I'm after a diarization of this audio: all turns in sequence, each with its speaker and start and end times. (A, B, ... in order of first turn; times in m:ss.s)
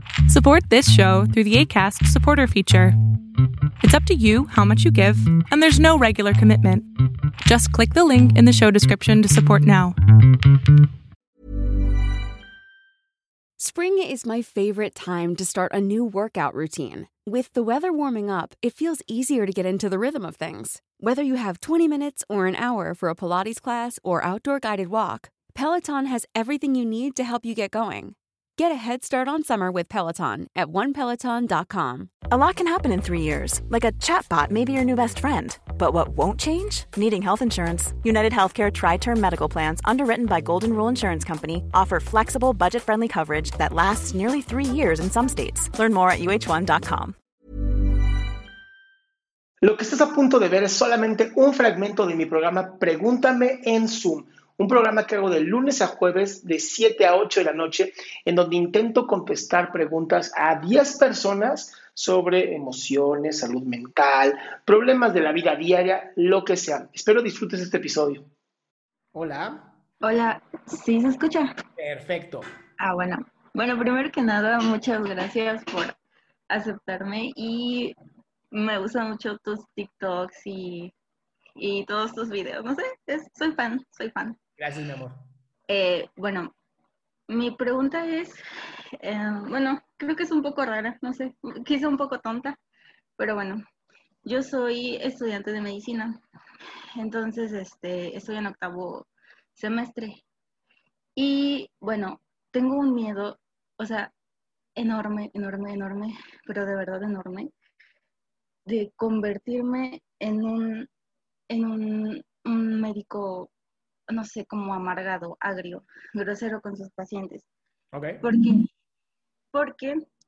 0:00.3-0:03.0 A
0:03.8-0:06.9 A
0:07.4-0:10.0 A
0:13.6-0:32.1 B
0:32.3-0:47.1 C
0:49.6-1:08.2 D
1:09.1-1:09.7 D
1:10.0-1:11.5 E
1:11.8-1:12.4 D
1:12.8-1:16.0 E
1:16.5-1:18.0 E
1:18.5-1:20.9 E
1:21.6-1:24.4 E
1:24.6-1:25.2 D
1:25.7-1:26.5 E
1:27.3-1:28.4 E
1:29.0-1:32.6 E
1:33.2-1:33.6 E
1:34.2-1:36.2 E
1:37.0-1:40.2 E
1:41.2-1:44.1 E
1:44.8-1:47.5 E
1:48.6-1:50.9 E
1:51.5-1:53.5 E
1:54.1-1:57.5 E
1:57.9-1:58.2 D
1:58.2-1:58.6 E
1:59.5-1:59.9 E